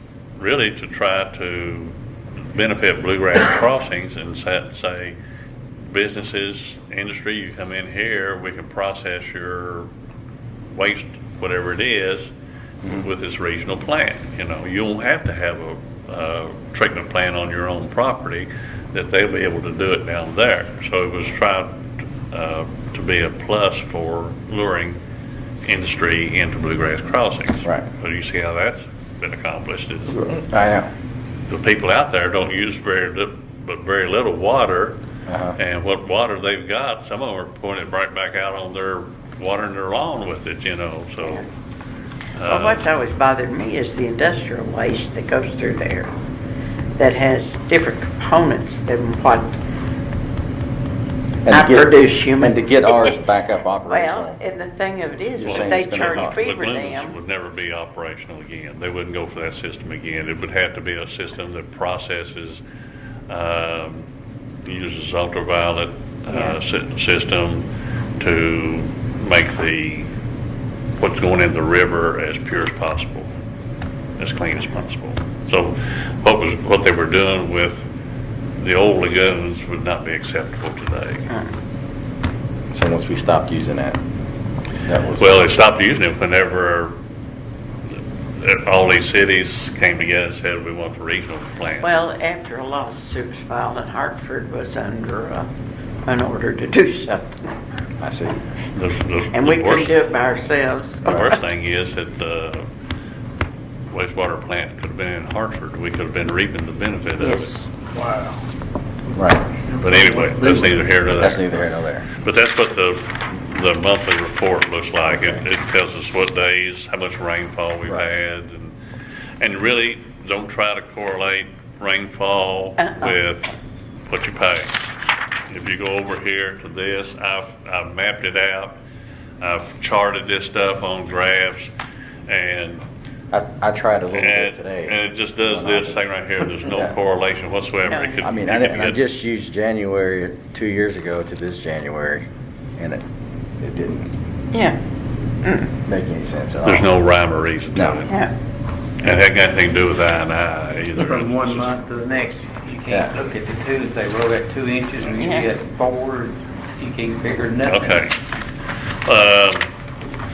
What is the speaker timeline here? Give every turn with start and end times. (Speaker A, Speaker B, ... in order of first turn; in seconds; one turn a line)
Speaker A: 0.4-2.0
Speaker A: 2.5-5.2
Speaker A: 5.9-9.9
Speaker A: 10.7-12.3
Speaker A: 12.9-25.0
Speaker A: 25.6-30.3
Speaker B: 30.2-30.9
Speaker A: 31.5-35.0
Speaker B: 35.3-35.6
Speaker A: 35.6-41.5
Speaker C: 41.2-41.5
Speaker A: 42.4-42.9
Speaker C: 42.5-46.1
Speaker C: 47.0-49.6
Speaker B: 51.5-54.4
Speaker C: 51.5-53.1
Speaker C: 53.9-57.1
Speaker B: 55.4-56.4
Speaker A: 55.4-62.6
Speaker A: 63.3-64.1
Speaker A: 64.7-67.7
Speaker C: 66.3-66.6
Speaker A: 68.2-70.1
Speaker A: 71.0-73.3
Speaker A: 74.2-77.8
Speaker A: 78.6-81.3
Speaker B: 82.7-84.0
Speaker B: 84.9-85.4
Speaker A: 85.2-87.0
Speaker A: 88.4-92.0
Speaker C: 91.8-95.5
Speaker C: 96.1-97.4
Speaker B: 98.0-98.4
Speaker A: 98.7-100.0
Speaker C: 99.3-101.3
Speaker A: 101.0-102.7
Speaker A: 103.9-107.6
Speaker C: 107.2-107.7
Speaker D: 108.0-108.3
Speaker B: 109.1-109.5
Speaker A: 109.8-111.4
Speaker B: 111.2-112.1
Speaker A: 112.2-118.7
Speaker B: 115.1-115.4
Speaker A: 119.4-123.5
Speaker A: 124.1-124.8
Speaker A: 125.5-128.8
Speaker A: 129.4-131.7
Speaker A: 132.3-132.8
Speaker B: 133.3-136.0
Speaker A: 134.1-139.0
Speaker B: 136.6-137.0
Speaker C: 137.8-138.2
Speaker B: 138.2-142.2
Speaker B: 143.6-144.1
Speaker C: 144.5-144.8
Speaker C: 145.4-145.7
Speaker B: 145.8-146.9
Speaker A: 146.6-148.2
Speaker B: 147.8-148.0
Speaker A: 149.0-151.7
Speaker D: 151.0-158.0
Speaker C: 155.2-155.5
Speaker A: 157.7-158.2
Speaker A: 159.1-159.7